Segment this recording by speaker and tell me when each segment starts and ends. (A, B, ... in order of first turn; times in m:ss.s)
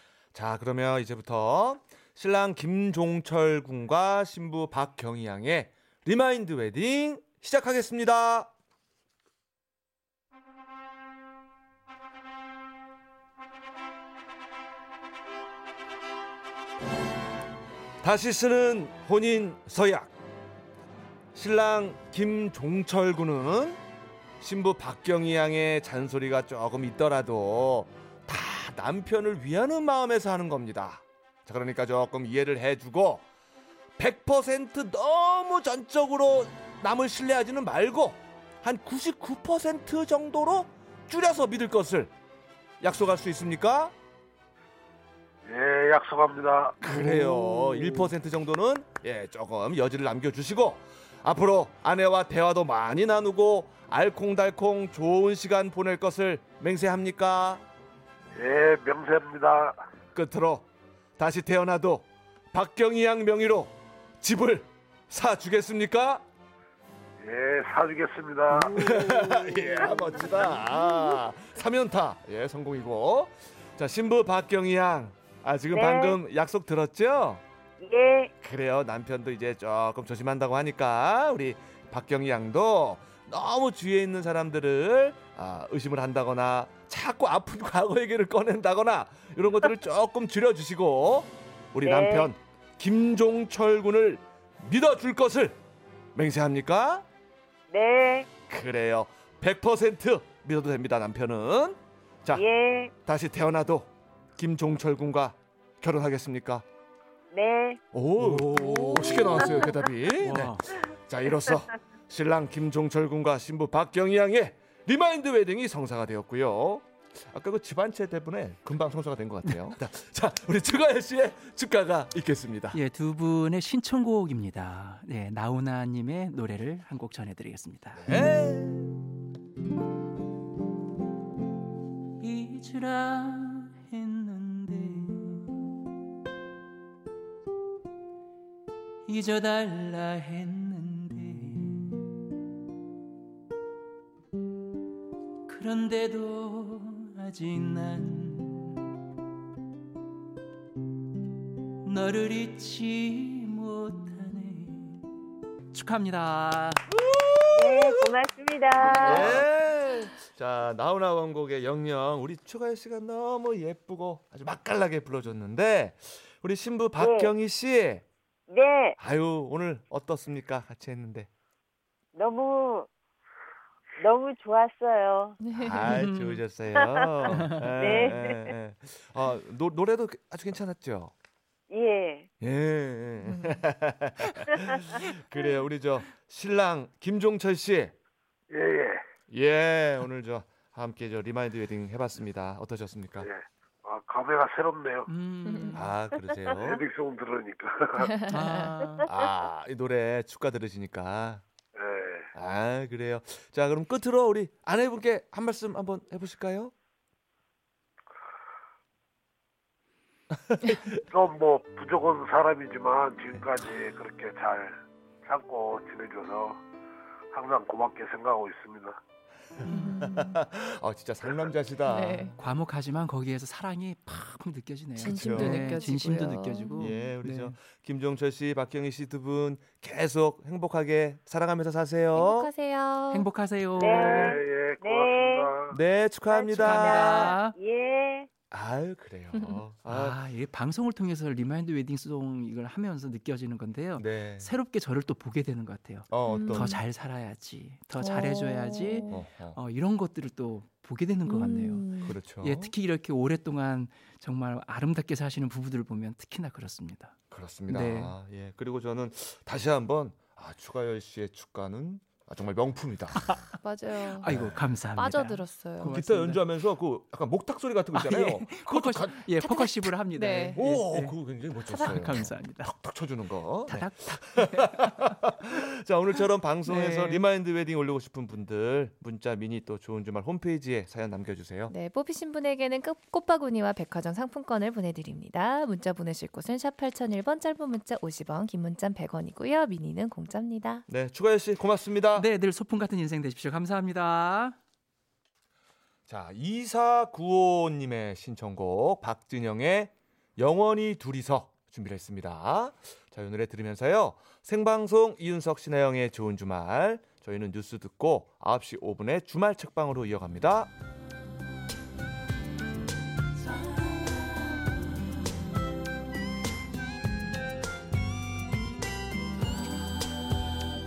0:00.3-0:08.5 A
0:18.0-0:20.1 A
0:21.3-0:23.8 A
0:24.4-0:33.2 A
0:34.0-0:42.1 A
0:42.8-0:43.9 A
0:45.4-0:46.8 B
0:46.8-0:57.6 A
0:46.8-0:48.1 C
0:58.3-0:59.8 B
1:00.1-1:00.6 A
1:01.2-1:06.2 A
1:07.2-1:08.9 B
1:08.7-1:17.4 A
1:15.7-1:16.2 D
1:17.8-1:18.3 D
1:18.4-1:35.6 A
1:31.8-1:32.3 D
1:36.1-1:37.0 A
1:37.7-1:38.3 D
1:38.5-1:42.4 A
1:42.3-1:42.9 D
1:43.0-1:46.6 A
1:47.3-1:47.8 D
1:47.9-2:02.8 A
1:48.2-1:49.4 C
1:48.5-1:49.8 E
1:50.2-1:50.7 C
2:02.7-2:08.0 C
2:07.9-2:09.0 A
2:12.2-2:15.7 C
2:19.0-2:22.0 C
2:25.5-2:28.8 C
2:31.8-2:35.0 C
2:35.7-2:36.8 C
2:36.9-2:38.1 A
2:37.5-2:39.4 D
2:38.8-2:39.4 B
2:39.0-2:48.0 A
2:47.0-2:47.3 D
2:48.5-2:49.0 D
2:49.0-2:51.3 A
2:52.1-2:52.9 D
2:54.0-2:55.4 D
2:55.4-2:56.0 E
2:55.5-3:01.1 A
2:55.8-2:56.4 C
2:56.8-2:57.1 D
2:57.3-2:57.7 C
2:57.8-2:58.5 D
3:01.7-3:02.3 D
3:02.4-3:07.9 A
3:03.2-3:03.6 E
3:08.5-3:09.0 B
3:09.3-3:13.3 A
3:13.2-3:15.1 B
3:15.1-3:15.9 C
3:15.4-3:15.8 E
3:15.7-3:16.8 A
3:16.5-3:18.2 B
3:18.1-3:18.7 E
3:18.3-3:19.0 C
3:19.1-3:21.4 A
3:21.7-3:22.3 B
3:22.3-3:26.7 A
3:30.3-3:31.0 A
3:31.1-3:36.6 B
3:37.3-3:39.0 B
3:39.6-3:40.0 C
3:39.7-3:40.4 E
3:40.0-3:42.3 A
3:41.9-3:42.4 E
3:42.4-3:47.5 C
3:45.0-3:45.8 A
3:45.0-3:47.0 E
3:46.8-3:52.5 A
3:52.1-3:53.3 E
3:53.1-3:54.4 C
3:53.8-3:55.5 D
3:53.8-3:55.8 B
3:55.7-3:57.3 A
3:56.3-3:58.3 D
3:56.5-3:57.6 C
3:58.5-4:00.2 A
3:59.3-3:59.6 E
3:59.9-4:17.2 C
4:04.0-4:04.5 A
4:06.1-4:06.8 A
4:06.3-4:06.8 E
4:08.0-4:09.2 E
4:09.1-4:09.6 A
4:11.2-4:12.1 E
4:12.0-4:12.7 A
4:17.3-4:23.4 A
4:17.7-4:18.1 C
4:23.6-4:24.3 E
4:24.1-4:26.4 C
4:24.2-4:24.6 A
4:25.0-4:25.9 E
4:25.8-4:29.3 A
4:27.9-4:32.7 C
4:29.4-4:30.6 E
4:30.6-4:41.7 A
4:33.7-4:35.2 C
4:36.6-4:37.2 C
4:41.7-4:50.8 E
4:50.9-4:52.3 A
4:52.1-4:54.6 C
4:56.1-5:10.7 A